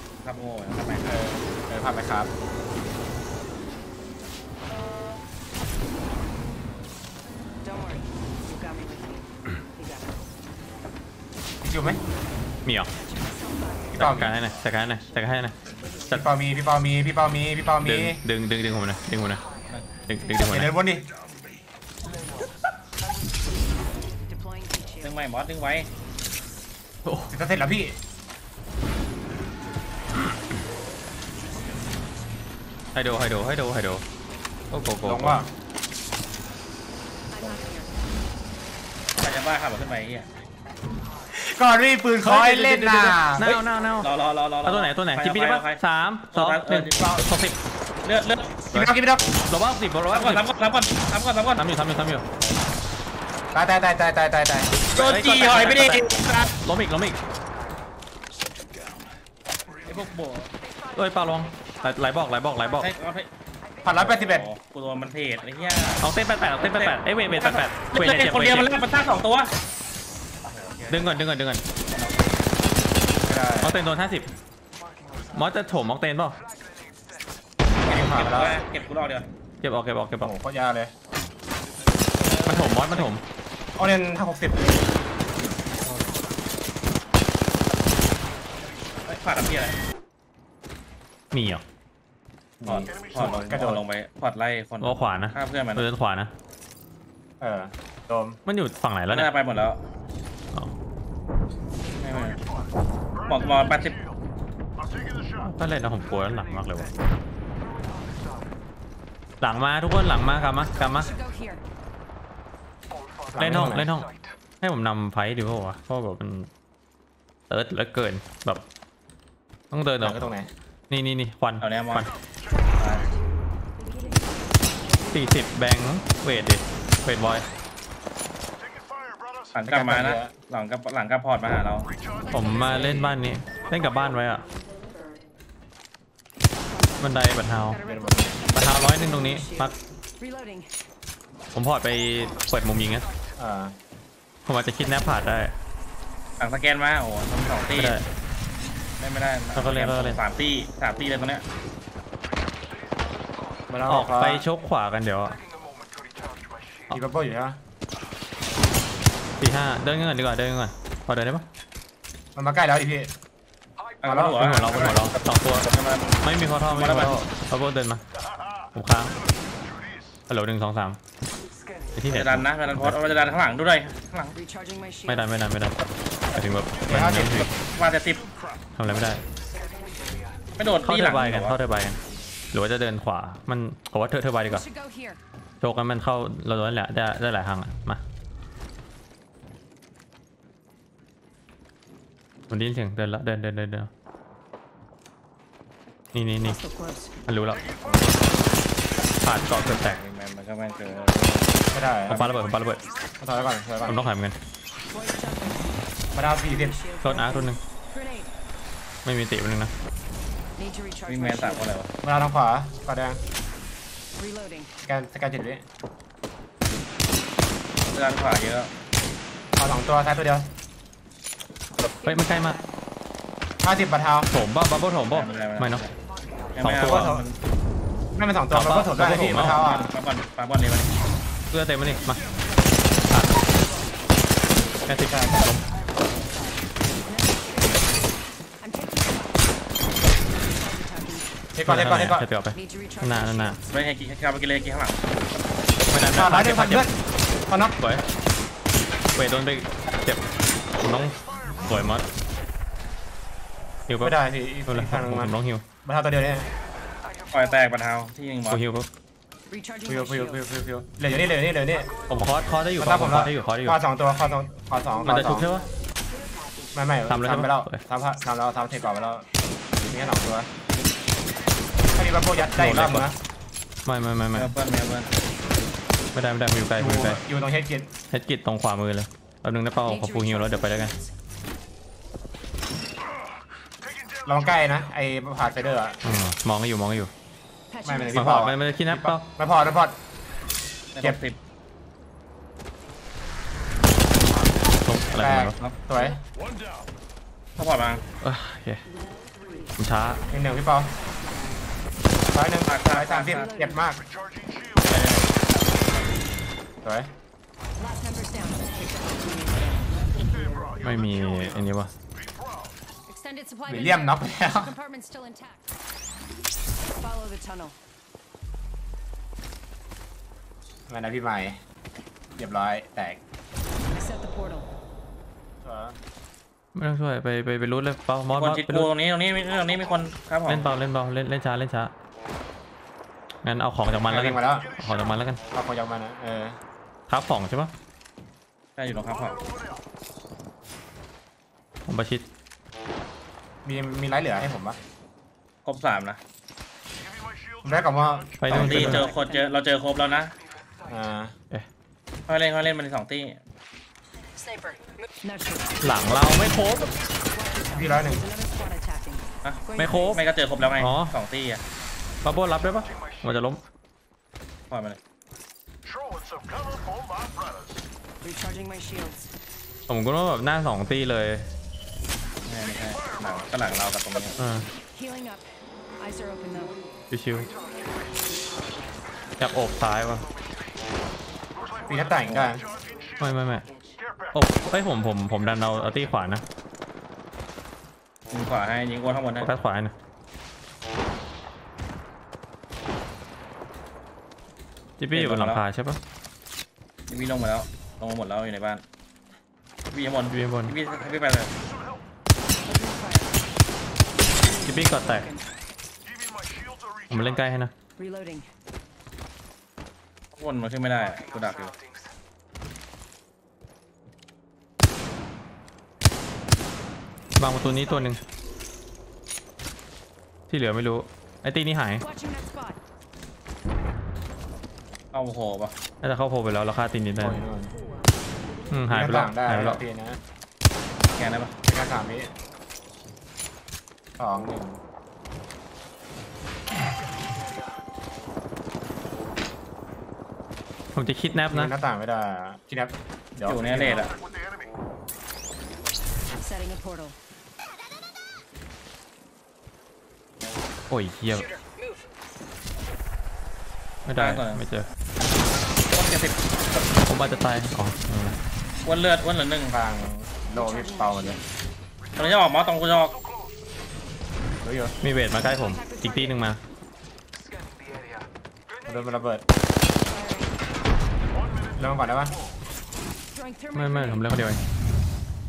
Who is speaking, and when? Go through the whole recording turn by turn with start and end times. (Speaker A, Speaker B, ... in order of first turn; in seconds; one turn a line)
Speaker A: 0.2-1.1
Speaker B: 1.0-2.3
Speaker C: 7.7-9.2
Speaker B: 11.6-12.0
Speaker D: 12.6-12.9
Speaker C: 13.1-13.7
Speaker D: 13.9-15.5
Speaker B: 13.9-14.4
Speaker B: 16.1-18.2
Speaker D: 17.8-19.4
Speaker D: 20.1-20.7
Speaker B: 20.4-21.1
Speaker C: 24.3-25.0
Speaker A: 25.0-25.9
Speaker D: 27.0-27.3
Speaker B: 27.3-28.0
Speaker D: 32.9-34.0
Speaker D: 34.7-35.4
Speaker B: 35.0-35.5
Speaker C: 37.4-37.8
Speaker A: 39.2-40.3
Speaker B: 41.3-43.6
Speaker D: 42.2-44.1
Speaker A: 44.0-47.0
Speaker D: 44.6-47.6
Speaker B: 47.0-47.2
Speaker A: 48.0-48.6
Speaker B: 48.7-49.3
Speaker D: 49.5-50.4
Speaker A: 50.1-51.6
Speaker D: 51.5-52.2
Speaker B: 53.5-54.8
Speaker A: 54.9-56.5
Speaker D: 54.9-57.2
Speaker A: 59.8-60.5
Speaker D: 60.9-62.9
Speaker A: 62.8-63.3
Speaker B: 63.8-64.5
Speaker A: 63.9-66.0
Speaker D: 66.0-68.7
Speaker A: 66.6-69.5
Speaker A: 70.5-71.2
Speaker D: 70.9-71.6
Speaker A: 71.9-72.2
Speaker B: 73.2-73.8
Speaker D: 73.6-74.3
Speaker D: 75.3-76.4
Speaker B: 77.8-78.6
Speaker A: 77.8-79.3
Speaker D: 79.6-80.3
Speaker B: 80.2-80.9
Speaker A: 82.1-83.1
Speaker D: 82.4-83.2
Speaker B: 83.8-84.8
Speaker A: 89.0-89.8
Speaker D: 91.3-91.6
Speaker B: 92.6-93.8
Speaker A: 92.6-95.8
Speaker D: 94.8-96.3
Speaker B: 97.4-98.4
Speaker D: 98.5-99.3
Speaker A: 99.1-99.8
Speaker A: 102.0-102.4
Speaker A: 103.2-104.0
Speaker D: 105.3-106.9
Speaker D: 109.4-111.1
Speaker C: 111.0-111.6
Speaker B: 113.3-114.0
Speaker D: 113.4-114.1
Speaker D: 114.6-116.5
Speaker D: 117.5-118.6
Speaker D: 119.7-120.3
Speaker B: 120.0-120.5
Speaker D: 120.9-122.1
Speaker A: 121.6-122.1
Speaker A: 122.7-123.1
Speaker D: 125.1-127.4
Speaker A: 129.5-131.9
Speaker B: 129.6-130.3
Speaker D: 132.3-134.4
Speaker B: 132.7-133.1
Speaker D: 137.0-137.8
Speaker C: 137.8-139.5
Speaker B: 137.8-138.4
Speaker D: 138.5-139.8
Speaker C: 140.2-140.6
Speaker D: 141.5-143.1
Speaker B: 143.4-143.8
Speaker D: 144.4-145.5
Speaker A: 146.4-148.0
Speaker D: 147.7-148.0
Speaker A: 149.0-151.4
Speaker D: 149.5-150.2
Speaker B: 153.7-154.4
Speaker D: 153.9-155.4
Speaker B: 156.9-157.6
Speaker D: 159.4-161.4
Speaker B: 162.3-163.1
Speaker A: 164.0-165.0
Speaker B: 164.0-164.9
Speaker D: 164.3-165.7
Speaker A: 165.7-166.2
Speaker D: 166.2-168.0
Speaker A: 166.7-167.2
Speaker D: 168.7-169.2
Speaker D: 170.3-171.0
Speaker D: 171.9-172.9
Speaker A: 172.1-174.4
Speaker C: 174.4-175.1
Speaker D: 175.1-175.8
Speaker D: 176.3-177.5
Speaker B: 176.8-177.5
Speaker A: 177.7-178.2
Speaker D: 178.8-179.2
Speaker A: 180.6-181.6
Speaker D: 180.8-182.0
Speaker D: 182.5-184.6
Speaker C: 184.6-185.2
Speaker D: 185.6-188.0
Speaker D: 192.5-193.9
Speaker D: 196.1-196.6
Speaker C: 196.6-197.1
Speaker D: 197.3-197.6
Speaker D: 199.2-200.0
Speaker A: 199.3-202.3
Speaker B: 201.7-202.3
Speaker D: 202.1-202.8
Speaker B: 203.2-204.1
Speaker D: 203.8-204.3
Speaker C: 205.0-205.6
Speaker B: 206.1-206.8
Speaker C: 206.7-208.3
Speaker D: 207.0-207.6
Speaker D: 209.0-209.7
Speaker C: 210.6-211.5
Speaker A: 211.1-211.9
Speaker B: 212.0-213.2
Speaker C: 214.2-214.7
Speaker B: 214.9-215.6
Speaker A: 217.8-218.7
Speaker B: 219.6-220.5
Speaker D: 222.0-222.6
Speaker B: 223.6-224.3
Speaker D: 224.3-225.8
Speaker A: 225.1-225.9
Speaker A: 226.5-227.4
Speaker D: 226.6-227.1
Speaker B: 226.8-227.3
Speaker B: 228.2-229.9
Speaker D: 228.5-229.6
Speaker A: 229.1-230.9
Speaker D: 231.5-232.2
Speaker D: 233.1-233.4
Speaker D: 234.9-235.6
Speaker C: 237.1-237.8
Speaker C: 238.7-239.1
Speaker C: 240.7-241.2
Speaker B: 241.5-242.3
Speaker D: 241.6-243.6
Speaker C: 242.6-243.7
Speaker A: 243.7-245.0
Speaker D: 245.9-246.9
Speaker B: 246.1-246.9
Speaker B: 247.5-247.8
Speaker D: 247.8-248.0
Speaker D: 249.2-250.2
Speaker D: 250.8-252.1
Speaker D: 253.9-254.2
Speaker B: 254.0-256.5
Speaker D: 254.7-255.6
Speaker A: 257.3-258.6
Speaker D: 258.5-258.9
Speaker C: 259.5-260.1
Speaker B: 259.9-261.9
Speaker D: 262.1-263.8
Speaker B: 262.8-265.5
Speaker D: 265.0-265.7
Speaker B: 266.7-269.2
Speaker D: 267.1-267.8
Speaker B: 269.8-270.5
Speaker B: 271.9-273.2
Speaker D: 272.4-273.1
Speaker D: 273.9-274.5
Speaker A: 274.3-275.1
Speaker D: 276.1-277.2
Speaker B: 276.8-277.9
Speaker D: 278.1-280.9
Speaker C: 279.9-281.0
Speaker B: 284.2-286.0
Speaker D: 286.0-287.1
Speaker C: 287.7-288.2
Speaker B: 287.8-290.0
Speaker D: 288.1-289.2
Speaker A: 290.9-291.4
Speaker D: 294.8-295.6
Speaker B: 295.2-296.2
Speaker A: 297.6-298.0
Speaker D: 298.2-298.8
Speaker D: 299.8-300.2
Speaker B: 300.3-300.9
Speaker B: 302.3-304.0
Speaker A: 302.6-303.5
Speaker A: 304.8-305.9
Speaker B: 306.8-307.1
Speaker C: 307.8-309.9
Speaker D: 310.8-311.9
Speaker C: 313.1-314.1
Speaker B: 313.7-314.7
Speaker C: 314.6-315.6
Speaker C: 317.0-317.7
Speaker B: 320.9-321.6
Speaker B: 322.4-323.2
Speaker C: 324.0-324.6
Speaker B: 325.6-326.0
Speaker D: 326.7-328.9
Speaker A: 328.3-330.6
Speaker D: 330.5-331.9
Speaker D: 333.4-335.4
Speaker B: 334.1-334.7
Speaker B: 335.5-336.6
Speaker D: 337.1-337.7
Speaker A: 338.8-339.4
Speaker D: 341.9-342.2
Speaker B: 343.6-344.8
Speaker A: 345.6-346.2
Speaker B: 347.6-349.0
Speaker D: 348.4-349.1
Speaker A: 348.5-350.3
Speaker C: 348.9-349.3
Speaker B: 350.9-351.3
Speaker A: 352.3-353.4
Speaker C: 355.2-355.7
Speaker D: 355.8-356.9
Speaker C: 357.4-360.2
Speaker B: 357.7-358.2
Speaker A: 359.4-361.6
Speaker D: 359.8-360.2
Speaker D: 360.8-361.1
Speaker D: 362.2-363.6
Speaker A: 364.7-365.0
Speaker C: 368.2-369.2
Speaker D: 369.9-371.5
Speaker A: 372.4-374.4
Speaker D: 374.4-374.7
Speaker C: 374.9-375.4
Speaker C: 376.0-376.7
Speaker D: 377.1-377.5
Speaker D: 379.4-380.2
Speaker B: 381.8-382.6
Speaker D: 383.2-383.6
Speaker D: 384.3-386.4
Speaker A: 388.3-389.5
Speaker D: 389.4-389.9
Speaker D: 395.0-396.0
Speaker A: 395.1-395.6
Speaker A: 397.1-398.8
Speaker A: 399.9-401.5
Speaker D: 400.3-400.8
Speaker C: 402.6-403.4
Speaker C: 404.5-405.4
Speaker D: 404.6-405.3
Speaker D: 407.1-407.7
Speaker C: 408.0-408.4
Speaker A: 410.4-411.8
Speaker D: 417.4-418.2
Speaker D: 420.5-422.1
Speaker C: 422.1-422.7
Speaker A: 425.1-425.7
Speaker D: 426.0-427.4
Speaker B: 427.2-427.7
Speaker D: 428.7-429.8
Speaker B: 428.9-430.2
Speaker A: 431.1-431.5
Speaker B: 431.7-432.3
Speaker B: 434.2-434.8
Speaker D: 440.9-441.7
Speaker B: 441.5-444.1
Speaker A: 443.4-444.1
Speaker C: 446.4-447.1
Speaker D: 450.9-451.5
Speaker D: 454.1-454.9
Speaker A: 454.2-454.6
Speaker A: 455.9-456.4
Speaker D: 457.0-458.4
Speaker A: 458.8-459.8
Speaker B: 459.7-461.4
Speaker C: 460.6-461.4
Speaker A: 462.1-463.2
Speaker B: 464.6-464.9
Speaker D: 465.0-466.6
Speaker B: 468.8-469.4
Speaker C: 470.1-470.5
Speaker B: 471.8-472.4
Speaker C: 473.4-474.2
Speaker D: 473.7-474.6